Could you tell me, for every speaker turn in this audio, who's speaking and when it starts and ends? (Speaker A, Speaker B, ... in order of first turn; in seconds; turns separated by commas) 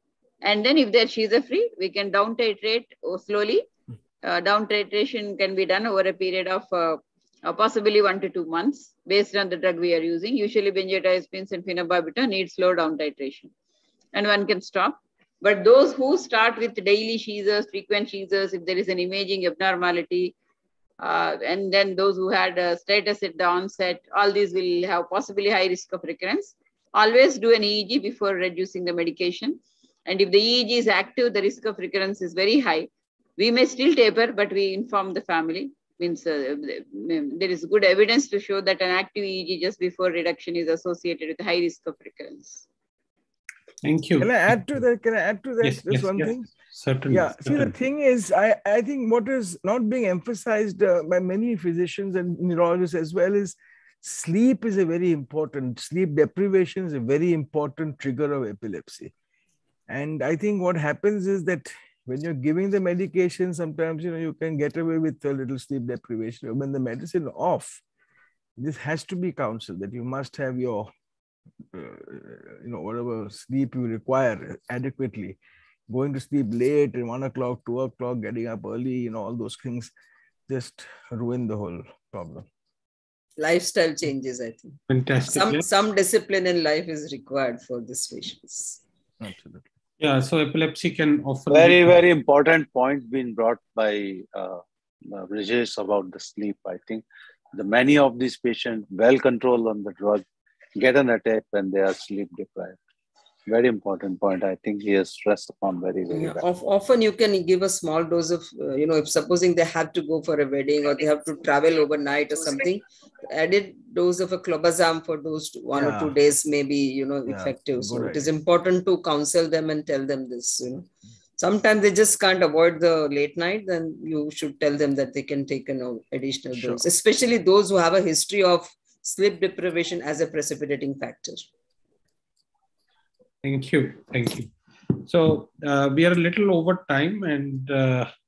Speaker A: 0.4-3.7, Speaker A: 4.2-13.5, Speaker A: 14.1-20.4, Speaker A: 21.0-42.6, Speaker B: 43.8-44.6, Speaker C: 44.2-46.5, Speaker B: 45.6-47.7, Speaker C: 47.1-59.1, Speaker C: 59.9-67.8, Speaker C: 68.6-70.9, Speaker C: 71.7-79.9, Speaker C: 80.5-82.5, Speaker D: 83.4-88.8, Speaker B: 84.9-85.7, Speaker C: 89.2-89.7, Speaker B: 90.0-92.0, Speaker E: 91.5-100.2, Speaker E: 100.8-102.8, Speaker E: 103.5-106.4, Speaker D: 106.1-131.5, Speaker C: 115.7-116.2, Speaker C: 117.3-118.3, Speaker C: 126.5-126.8, Speaker B: 133.4-138.1